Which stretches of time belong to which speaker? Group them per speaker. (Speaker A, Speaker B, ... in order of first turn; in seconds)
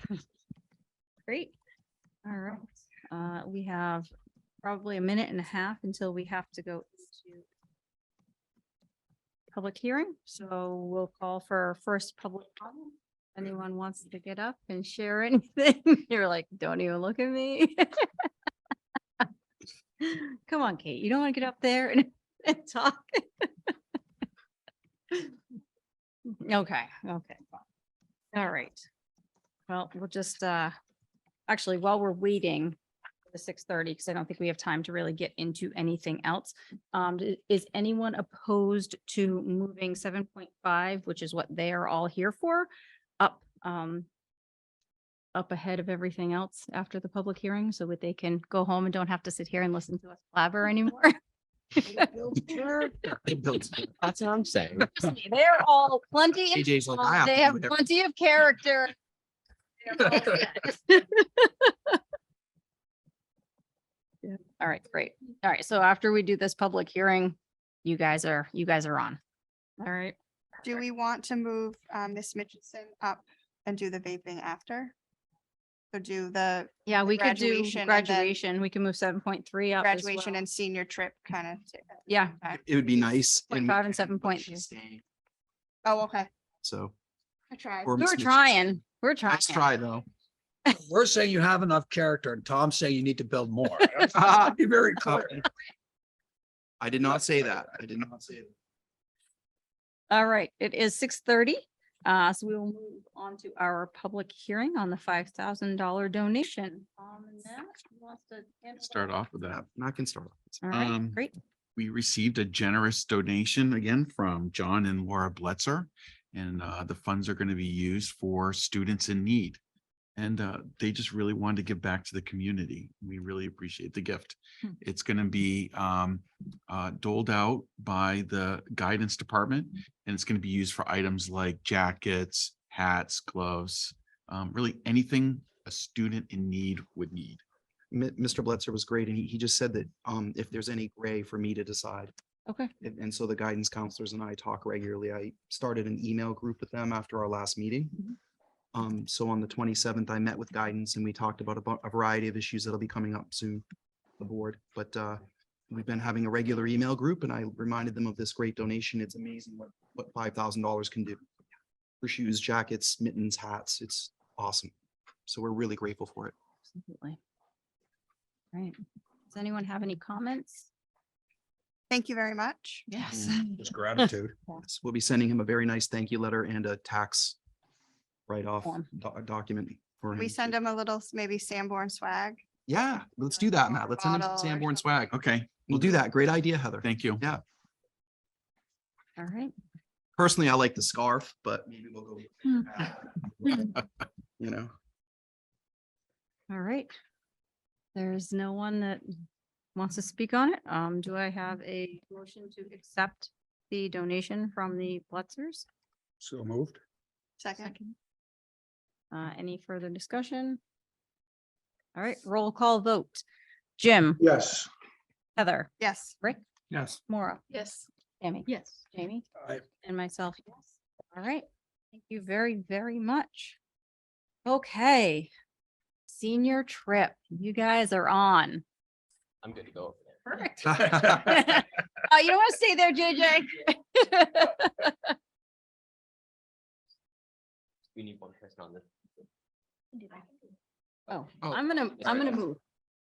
Speaker A: 1.3-1.5, 2.2-4.1, 4.6-7.5, 9.5-18.3, 20.0-23.7, 25.1-25.4, 26.3-27.4, 28.3-28.8, 29.7-30.7, 31.5-32.8, 33.3-44.1, 45.3-51.1, 51.8-53.1, 54.8-59.0, 59.8-62.0, 64.2-69.2, 69.8-70.8, 76.9-80.4, 82.1-82.4, 83.3-84.7, 88.0-89.7, 100.1-109.3, 110.7-111.4, 142.5-142.7, 166.7-167.2, 169.3-170.7, 172.9-174.6, 189.2-189.5, 196.5-196.9, 197.9-199.0, 199.8-205.7, 207.6-207.9, 209.1-210.6, 211.9-213.2, 213.8-214.2, 215.4-216.4, 217.1-217.4, 218.2-219.3, 219.8-223.6, 224.4-225.3, 226.1-228.6, 230.3-235.1, 241.1-242.6
Speaker B: 52.0-52.9, 90.7-95.4, 173.6-174.3, 206.2-206.8
Speaker C: 53.8-54.9, 229.4-230.2, 237.9-238.8, 242.0-242.4
Speaker D: 56.5-57.7, 82.5-85.0, 86.6-86.9, 87.8-88.6, 89.3-90.0, 94.2-94.5, 95.0-95.3, 96.8-98.5, 109.5-110.7, 137.9-142.1, 142.8-148.0, 148.7-153.7, 154.2-161.2, 162.0-164.7, 165.3-166.4, 174.6-177.4, 178.3-180.6, 182.7-187.4, 190.2-193.8, 194.4-194.7
Speaker E: 70.6-74.9, 75.9-78.4, 79.8-82.6, 85.8-86.3, 87.5-88.0, 171.9-172.9, 180.2-182.4, 183.7-184.8, 207.4-207.7, 215.8-216.2
Speaker F: 108.8-109.6, 110.7-111.2, 111.8-119.6, 120.2-137.4, 185.1-186.0, 186.8-187.2